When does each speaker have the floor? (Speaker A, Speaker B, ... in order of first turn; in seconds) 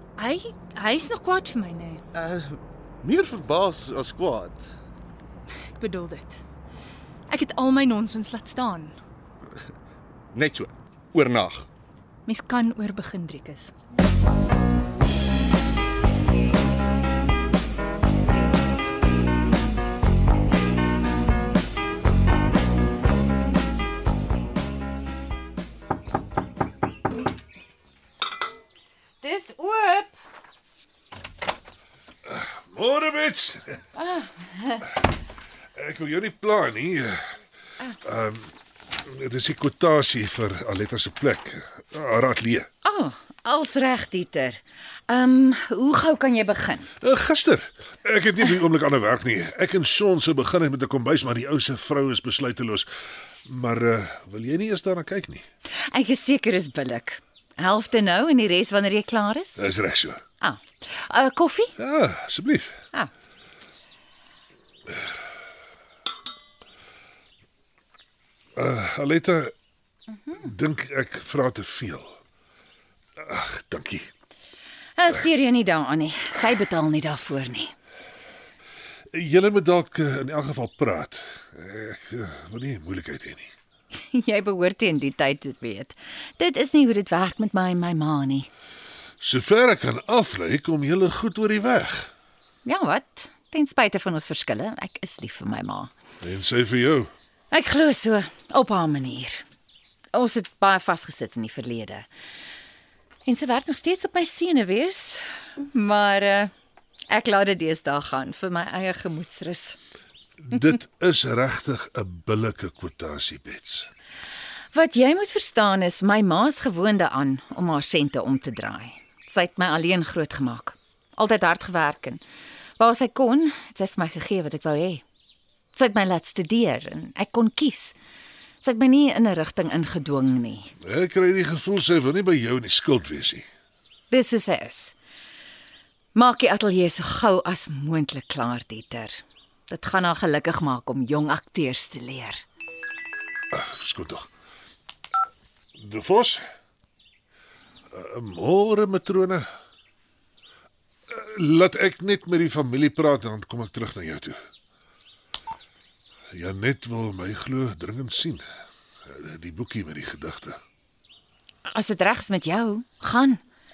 Speaker A: 0.2-2.0, 5.8-6.4, 7.3-9.0, 12.2-13.7
Speaker B: 2.1-4.7, 10.3-11.7
Speaker C: 29.2-30.2, 34.0-34.8, 42.8-46.9, 55.8-59.7, 60.4-61.8, 75.0-77.7, 83.9-88.5, 92.7-95.9, 97.5-99.4, 100.1-102.1, 103.2-106.5, 107.1-109.8, 114.7-122.2, 122.8-125.0, 125.7-128.0, 128.6-130.7, 134.1-134.9, 136.2-139.2, 139.7-142.4, 161.7-163.4
Speaker D: 32.3-33.8, 35.8-37.2, 38.0-38.5, 39.1-42.7, 47.0-52.9, 53.5-55.4, 59.6-60.2, 61.8-62.8, 68.6-69.5, 70.3-72.2, 73.2-74.1, 79.1-83.5, 89.2-92.1, 96.2-97.1, 110.5-113.9, 130.8-133.4, 143.5-144.3, 145.8-146.4, 147.9-149.5, 151.1-154.4, 156.3-158.4, 159.1-160.6